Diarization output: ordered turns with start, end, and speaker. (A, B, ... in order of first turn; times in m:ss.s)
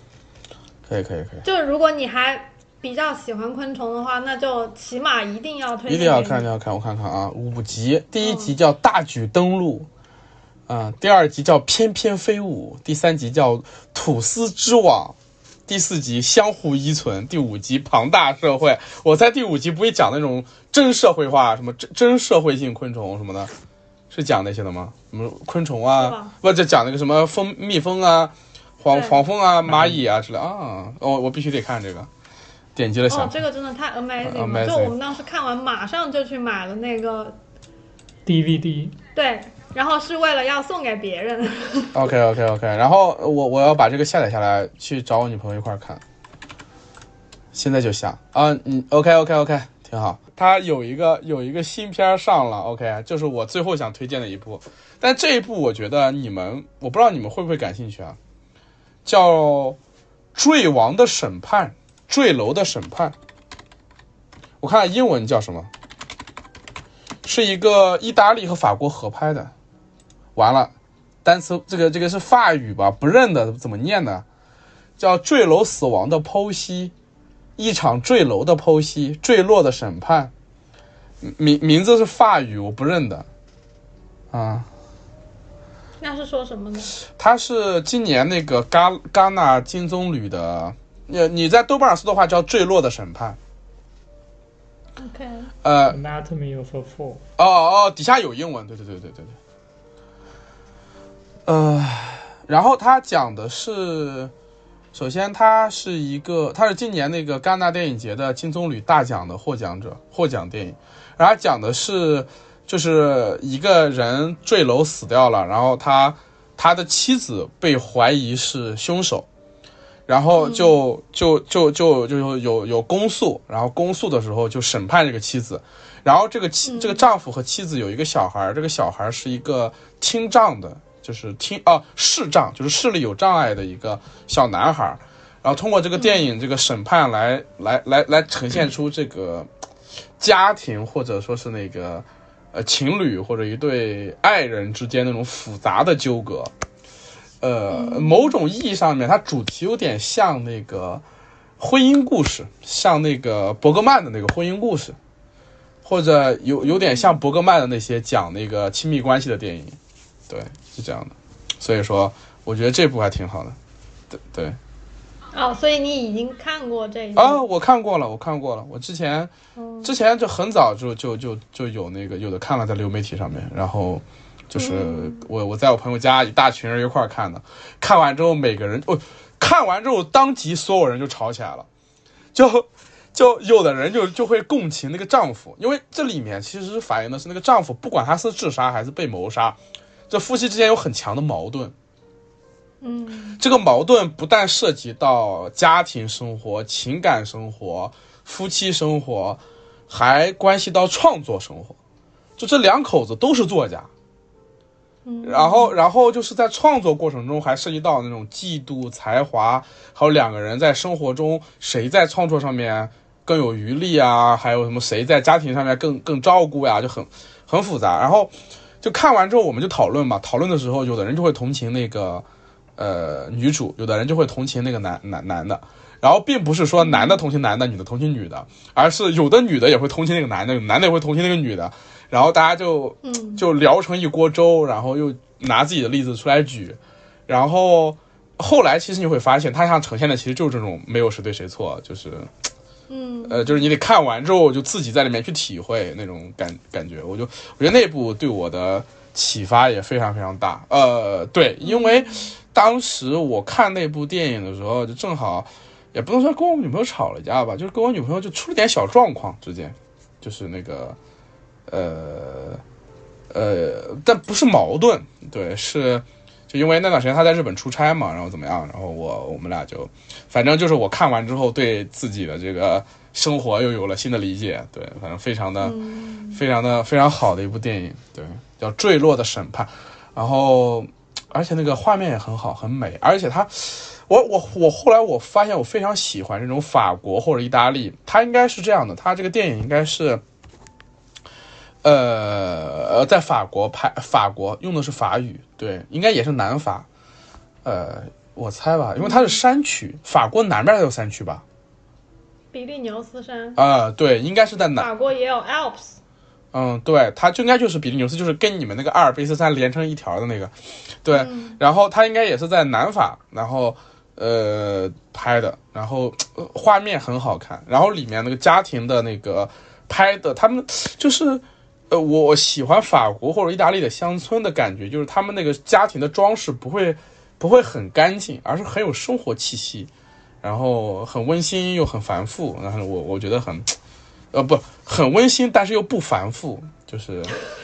0:00.9-0:01.4 A
0:01.4-0:06.5 B
0:05.9-0:09.9 A
0:08.2-0:08.5 B
0:10.7-0:15.2 A
0:15.7-0:23.5 A
0:24.1-0:32.1 A
0:26.0-0:26.3 B
0:28.9-0:29.2 B
0:29.7-0:30.0 C
0:32.8-0:33.4 A
0:33.1-0:37.4 B
0:34.2-0:35.0 A
0:38.3-0:39.0 C
0:39.2-0:42.1 B
0:41.9-0:46.0 A
0:47.5-0:58.2 A
0:59.0-0:59.8 A
1:00.3-1:03.2 A
1:04.6-1:05.7 A
1:07.2-1:09.5 A
1:10.4-1:10.7 A
1:11.2-1:14.2 A
1:15.0-1:16.9 A
1:17.6-1:20.3 A
1:21.2-1:23.3 A
1:24.3-1:24.7 A
1:26.0-1:27.0 B
1:27.1-1:33.4 A
1:35.0-1:35.5 B
1:35.6-1:36.0 A
1:35.9-1:37.2 C
1:37.4-1:39.4 A
1:41.5-1:44.3 A
1:44.9-1:59.3 A
2:00.1-2:19.5 A
2:00.4-2:00.8 B
2:06.7-2:07.0 B
2:20.2-2:26.5 A
2:27.4-2:31.0 A
2:27.7-2:28.3 B
2:31.6-2:35.0 A
2:35.8-2:39.8 A
2:36.7-2:37.2 B
2:40.3-2:43.6 A
2:44.1-2:44.6 A
2:45.3-2:47.4 B
2:47.2-2:49.3 A
2:49.6-2:49.9 B
2:49.8-3:01.7 A
2:54.6-2:55.3 B
3:02.3-3:09.6 A
3:10.1-3:11.7 A
3:12.8-3:13.4 B
3:13.4-3:21.8 A
3:22.4-3:23.9 A
3:25.0-3:25.8 B
3:25.2-3:42.2 A
3:42.8-4:02.3 A
3:46.8-3:47.2 B
3:53.0-3:53.4 B
4:02.9-4:03.7 B
4:03.2-4:21.0 A
4:11.6-4:12.3 B
4:21.7-4:22.6 A
4:23.3-4:35.8 A
4:35.6-4:36.4 B
4:36.3-4:50.2 A
4:51.8-4:56.9 A
4:57.6-5:01.4 A
4:59.0-4:59.4 B
5:02.5-5:03.6 B
5:03.6-5:04.9 A
5:04.8-5:06.0 B
5:06.5-5:10.5 A
5:11.0-5:29.9 A
5:11.1-5:11.6 B
5:30.4-5:33.8 A
5:34.3-5:37.4 A